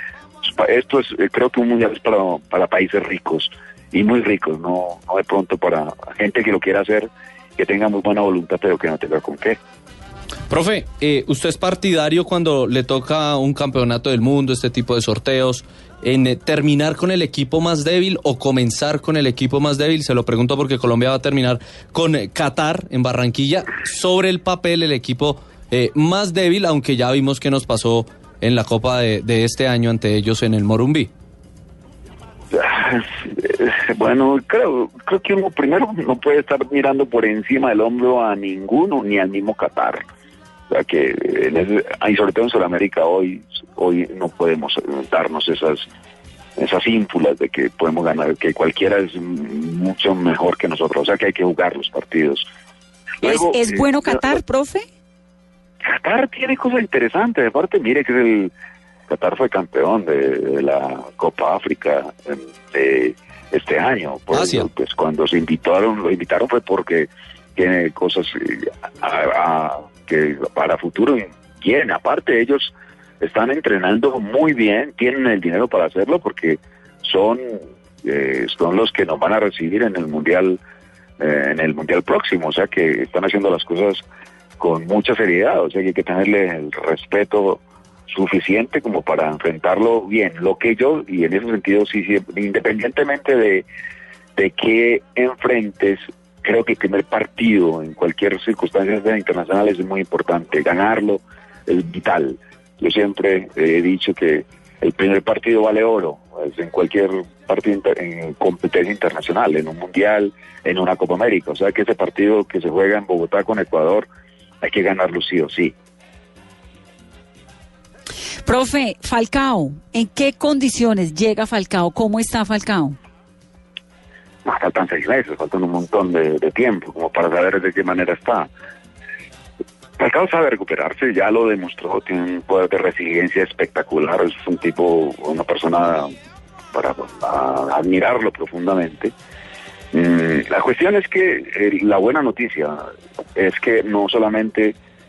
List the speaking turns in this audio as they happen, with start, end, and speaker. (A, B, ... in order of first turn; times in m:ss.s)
0:00.4-0:09.6 A
0:10.5-0:31.1 B
0:32.5-0:40.0 A
0:40.7-0:45.9 A
0:46.6-0:52.4 A
0:53.2-0:54.4 A
0:53.2-0:54.8 C
0:55.8-0:58.5 A
0:59.1-1:20.6 A
1:04.3-1:04.7 B
1:21.2-1:24.0 A
1:24.6-1:33.6 A
1:34.4-1:54.1 A
1:54.6-1:55.7 A
1:58.4-2:03.0 C
2:04.4-2:08.5 A
2:10.0-2:16.1 A
2:16.7-2:19.1 A
2:19.9-2:22.8 A
2:23.3-2:24.8 A